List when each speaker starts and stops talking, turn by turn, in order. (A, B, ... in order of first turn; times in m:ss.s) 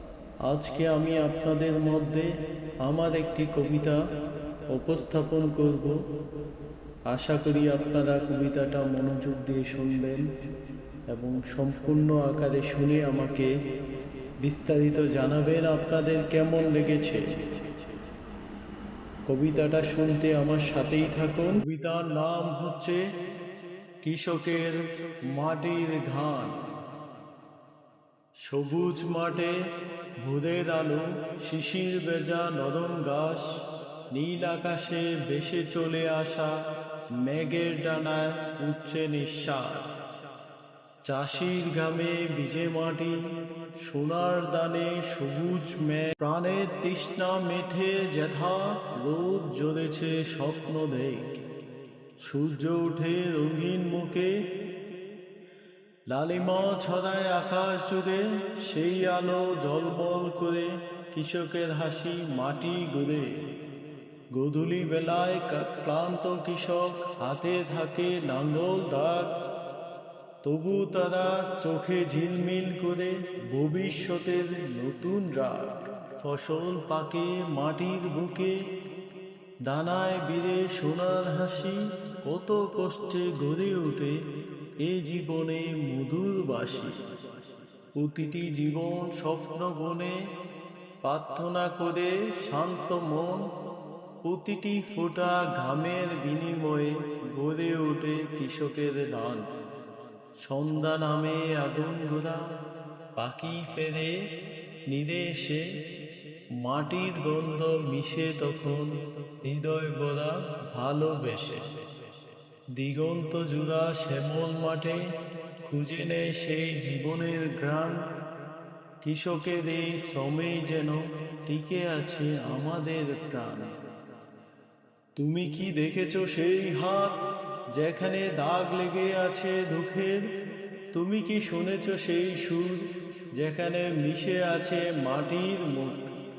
0:00.4-0:02.3 A
0:02.8-0:04.0 A
0:04.7-0:06.0 A
0:07.1-0:10.2 A
0:11.1-0:13.5 A
0:14.4-0:17.2 A
0:19.3-0:23.0 A
0:24.0-0:24.8 A
0:25.3-0:26.6 A
0:28.4-0:29.5 A
0:30.2-0:33.5 A
0:34.1-0:36.5 A
0:37.2-0:39.8 A
0:41.0-0:43.2 A
0:43.8-0:51.4 A
0:52.2-0:54.4 A
0:56.1-1:03.4 A
1:04.3-1:09.3 A
1:10.4-1:18.6 A
1:19.7-1:24.2 A
1:24.8-1:26.9 A
1:28.0-1:30.2 A
1:31.0-1:33.4 A
1:34.2-1:39.4 A
1:40.4-1:42.4 A
1:43.2-1:44.2 A
1:44.9-1:45.6 A
1:46.6-1:51.6 A
1:52.8-1:55.0 A
1:55.6-1:58.0 A
1:59.0-2:03.7 A
2:05.2-2:07.2 A
2:07.8-2:10.3 A
2:10.9-2:12.8 A
2:13.4-2:16.1 A